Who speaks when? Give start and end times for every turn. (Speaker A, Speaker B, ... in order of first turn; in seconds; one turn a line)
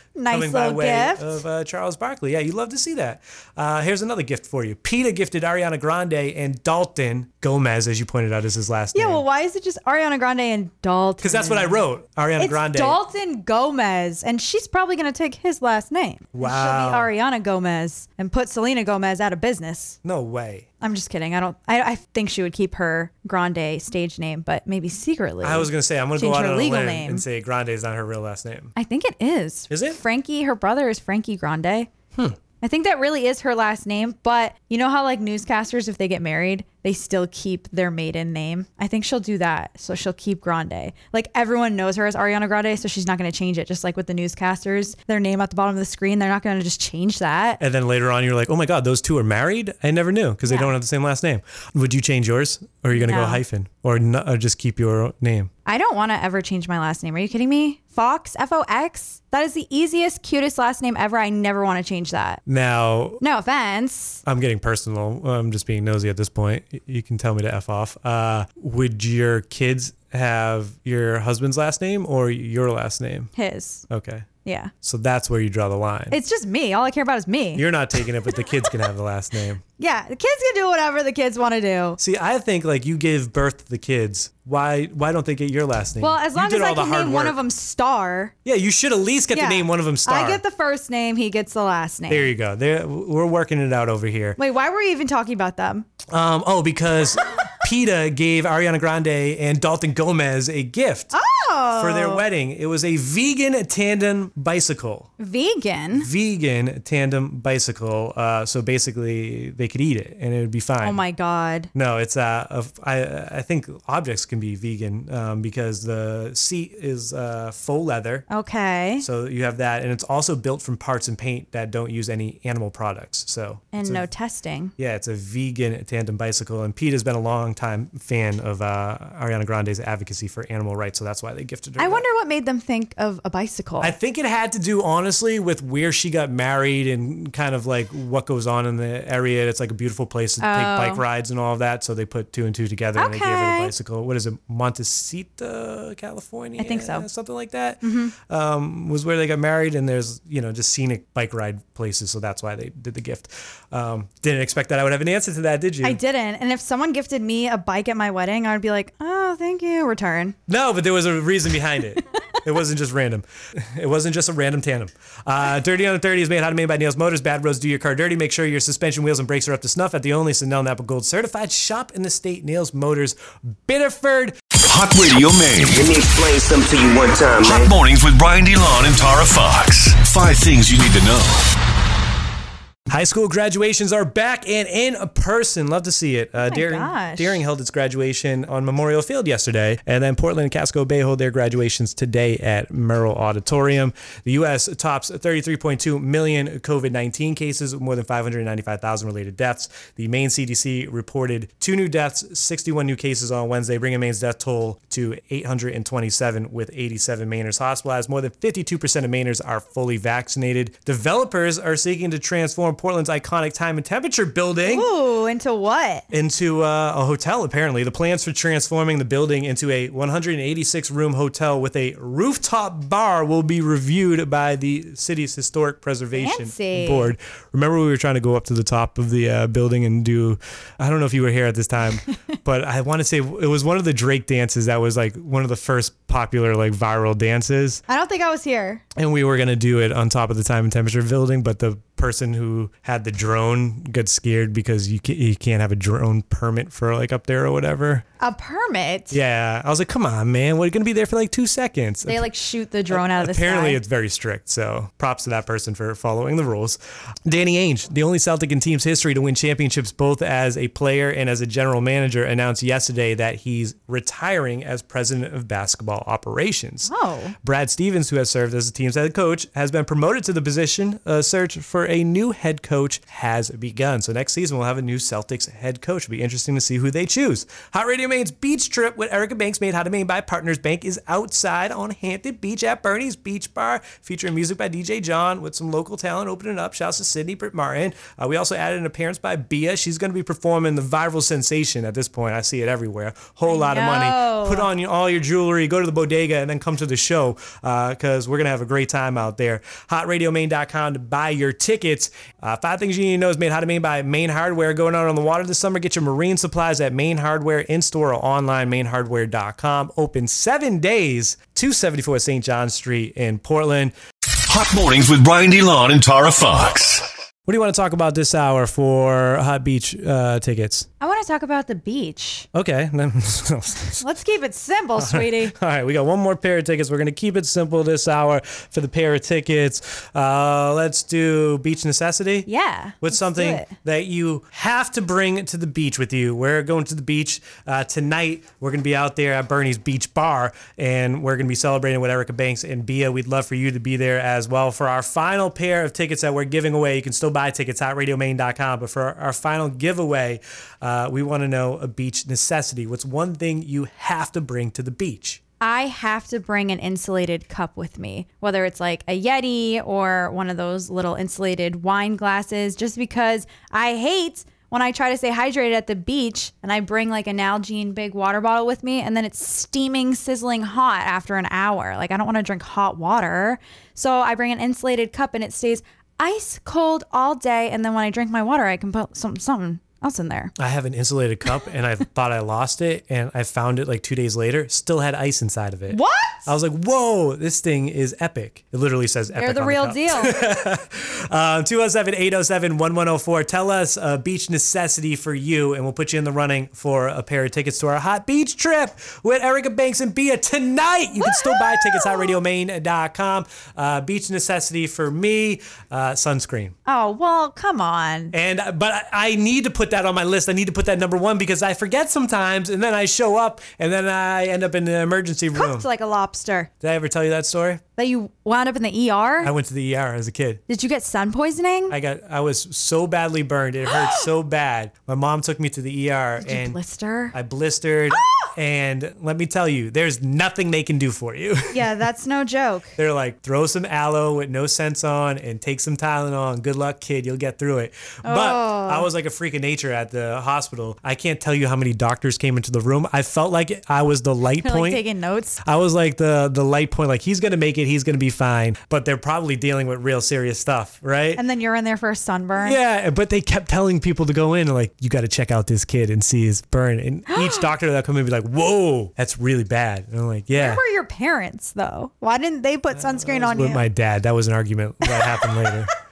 Speaker A: 0.2-1.4
Speaker B: 0.3-9.2
Speaker A: 8.9-11.8
Speaker B: 11.2-13.0
Speaker A: 12.4-20.0
Speaker B: 16.3-17.1
Speaker B: 20.0-20.7
Speaker A: 20.8-27.2
Speaker B: 25.4-28.7
Speaker A: 28.8-31.9
Speaker B: 29.7-30.0
Speaker A: 32.6-47.6
Speaker B: 47.6-55.5
Speaker A: 50.5-50.7
Speaker A: 52.9-53.4
Speaker A: 55.7-62.4
Speaker B: 62.5-63.2
Speaker A: 63.2-64.2
Speaker B: 64.2-73.3
Speaker A: 73.3-73.8
Speaker B: 73.9-74.3
Speaker A: 74.5-74.7
Speaker B: 74.8-76.2
Speaker A: 76.1-77.7
Speaker B: 77.5-79.6
Speaker A: 79.8-82.0
Speaker B: 82.0-87.4
Speaker A: 86.0-88.3
Speaker B: 88.5-90.4
Speaker A: 89.3-92.3
Speaker B: 92.1-94.4
Speaker A: 94.4-95.9
Speaker B: 96.1-101.1
Speaker A: 101.1-102.2
Speaker B: 101.8-105.1
Speaker A: 105.2-106.1
Speaker B: 105.9-111.0
Speaker A: 110.8-111.7
Speaker B: 111.7-118.3
Speaker A: 118.3-119.1
Speaker B: 119.0-124.1
Speaker A: 123.7-124.7
Speaker B: 124.8-132.1
Speaker A: 131.8-133.9
Speaker B: 133.8-156.0
Speaker A: 140.4-141.0
Speaker A: 143.0-143.7
Speaker A: 146.6-147.1
Speaker A: 147.8-148.1
Speaker A: 155.8-160.4
Speaker B: 160.5-174.4
Speaker C: 174.6-175.8
Speaker D: 175.7-177.7
Speaker C: 177.4-181.4
Speaker B: 182.9-214.9
Speaker A: 186.4-187.4
Speaker A: 214.7-216.1
Speaker B: 216.1-237.8
Speaker A: 226.1-227.1
Speaker A: 237.9-238.8
Speaker B: 239.0-248.0
Speaker A: 248.2-249.2
Speaker B: 249.1-252.3
Speaker A: 252.1-253.8
Speaker B: 252.9-266.9
Speaker A: 266.9-267.4
Speaker B: 267.4-313.9
Speaker A: 293.5-294.7
Speaker C: 314.5-317.1
Speaker B: 317.4-320.9
Speaker A: 321.0-322.5
Speaker B: 322.5-324.0
Speaker A: 324.0-325.6
Speaker B: 325.0-332.5
Speaker A: 332.5-333.8
Speaker B: 333.0-355.4
Speaker A: 355.6-380.5
Speaker B: 380.6-406.8
Speaker A: 385.9-386.5
Speaker A: 389.4-390.4
Speaker A: 401.2-402.3
Speaker A: 406.9-408.3
Speaker B: 408.3-415.9
Speaker A: 415.5-416.7
Speaker B: 416.8-417.8
Speaker A: 418.0-419.5
Speaker B: 419.4-420.6
Speaker A: 420.7-422.0
Speaker B: 421.9-426.8
Speaker A: 423.9-424.2
Speaker A: 426.4-427.4
Speaker B: 427.3-431.9
Speaker A: 428.1-428.5
Speaker A: 431.7-433.0
Speaker B: 433.0-445.0
Speaker A: 438.2-439.1
Speaker A: 444.6-445.6
Speaker B: 445.6-451.4
Speaker A: 451.4-452.8
Speaker B: 452.6-460.8
Speaker A: 457.3-457.7
Speaker A: 460.6-463.9
Speaker B: 462.9-465.9
Speaker A: 465.1-465.7